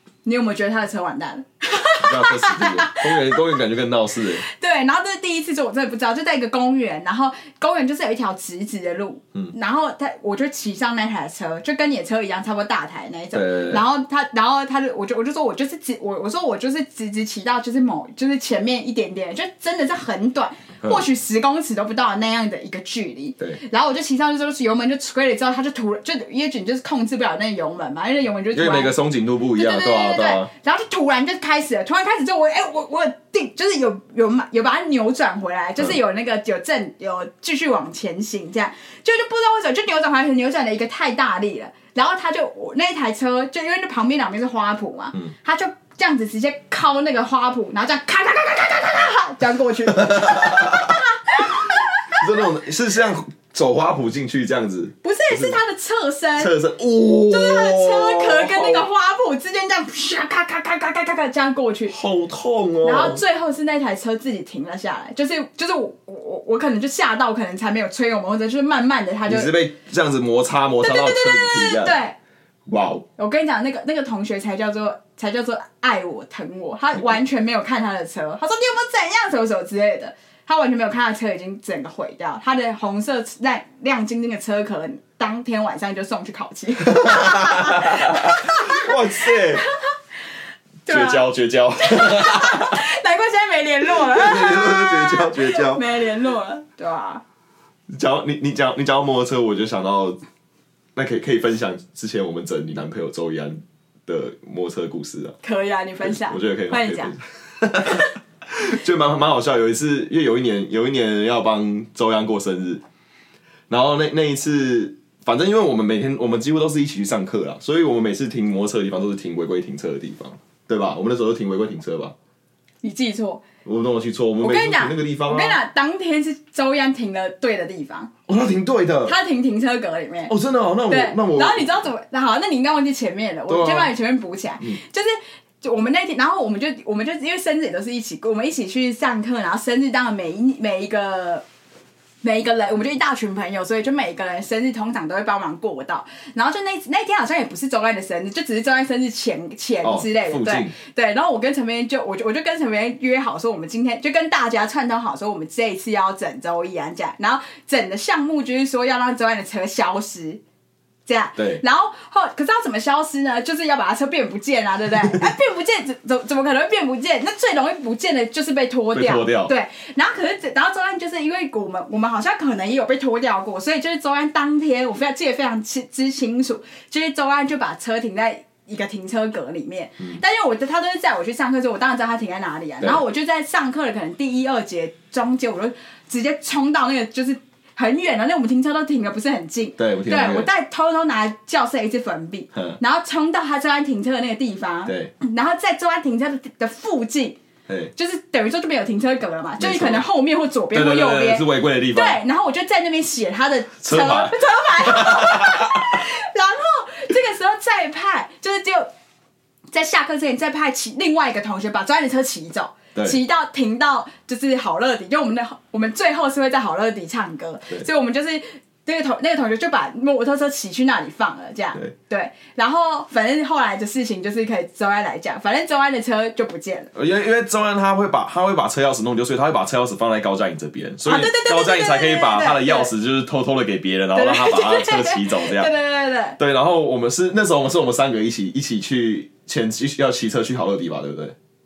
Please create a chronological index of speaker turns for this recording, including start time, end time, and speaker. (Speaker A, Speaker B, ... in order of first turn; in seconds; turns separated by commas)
Speaker A: 0.2-3.4, Speaker B: 2.0-4.4, Speaker A: 4.4-28.9, Speaker B: 13.3-13.8, Speaker B: 28.5-30.5, Speaker A: 29.5-52.4, Speaker B: 50.0-51.0, Speaker B: 51.6-55.6, Speaker A: 55.0-56.5, Speaker B: 56.4-58.9, Speaker A: 57.3-62.0, Speaker B: 61.9-63.2, Speaker A: 62.8-69.5, Speaker B: 69.3-72.0, Speaker A: 70.8-72.1, Speaker B: 72.7-73.1, Speaker A: 73.2-89.9, Speaker B: 86.9-89.7, Speaker A: 90.9-91.3, Speaker B: 90.9-92.8, Speaker A: 91.8-97.2, Speaker B: 93.9-95.8, Speaker B: 97.9-100.2, Speaker B: 100.9-105.4, Speaker A: 105.4-107.1, Speaker B: 106.0-112.8, Speaker B: 113.7-122.1, Speaker A: 122.8-123.4, Speaker B: 123.6-125.6, Speaker A: 124.4-128.1, Speaker B: 128.3-129.1, Speaker A: 129.1-130.3, Speaker B: 130.3-131.8, Speaker A: 130.9-141.4, Speaker B: 133.5-133.9, Speaker A: 142.2-160.4, Speaker B: 149.8-150.7, Speaker A: 161.1-197.4, Speaker B: 161.4-161.6, Speaker B: 168.9-169.5, Speaker B: 189.8-190.5, Speaker B: 192.5-192.8, Speaker B: 194.9-195.1, Speaker A: 197.9-208.9, Speaker B: 199.6-200.1, Speaker B: 200.7-202.2, Speaker B: 203.8-206.0, Speaker A: 209.7-226.9, Speaker B: 226.9-235.7, Speaker A: 231.1-232.9, Speaker A: 234.1-236.4, Speaker B: 236.4-241.3